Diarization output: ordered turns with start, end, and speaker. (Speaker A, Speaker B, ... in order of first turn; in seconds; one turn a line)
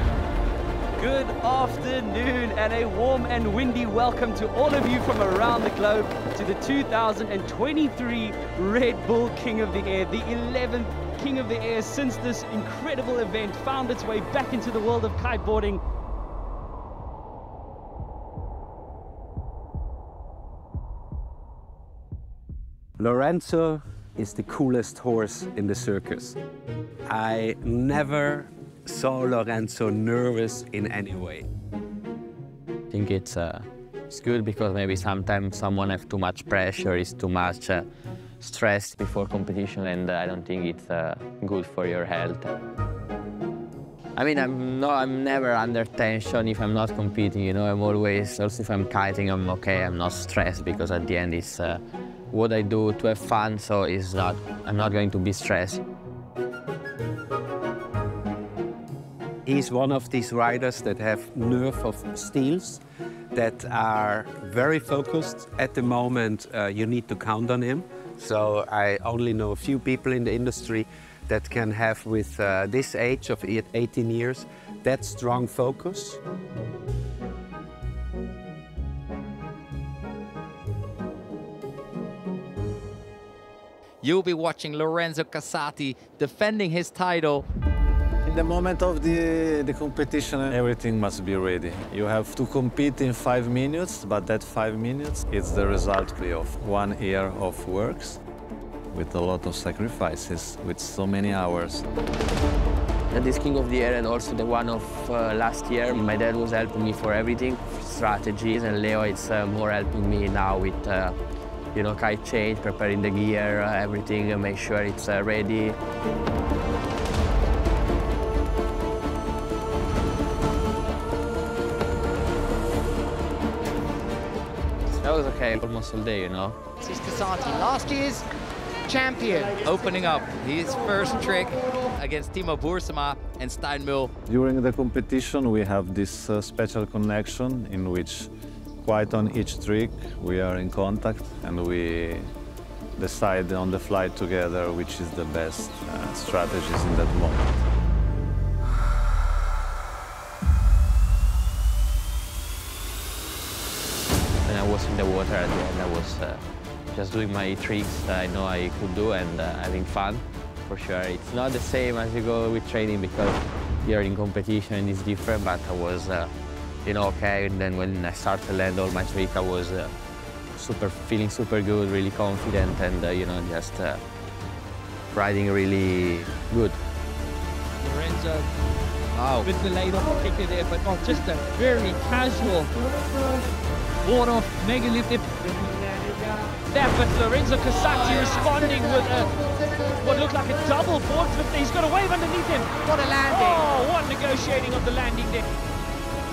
Speaker A: 1.0-15.8
Speaker B: 23.0-26.4
Speaker B: 27.1-31.5
Speaker C: 32.9-37.9
Speaker C: 38.4-42.5
Speaker C: 44.2-55.8
Speaker B: 59.5-62.8
Speaker B: 63.3-76.2
Speaker D: 84.0-87.5
Speaker E: 88.2-98.2
Speaker E: 98.9-101.9
Speaker C: 103.1-111.2
Speaker C: 111.8-115.8
Speaker C: 125.0-126.6
Speaker F: 126.8-128.3
Speaker F: 128.9-129.6
Speaker D: 129.6-134.1
Speaker E: 134.3-138.3
Speaker E: 138.8-142.3
Speaker E: 143.0-147.6
Speaker C: 154.4-166.3
Speaker C: 166.8-169.9
Speaker C: 170.6-174.0
Speaker C: 175.1-176.8
Speaker A: 177.8-178.5
Speaker D: 179.1-179.5
Speaker A: 179.4-182.7
Speaker A: 184.0-185.3
Speaker A: 186.7-189.3
Speaker A: 190.0-195.4
Speaker F: 192.8-193.7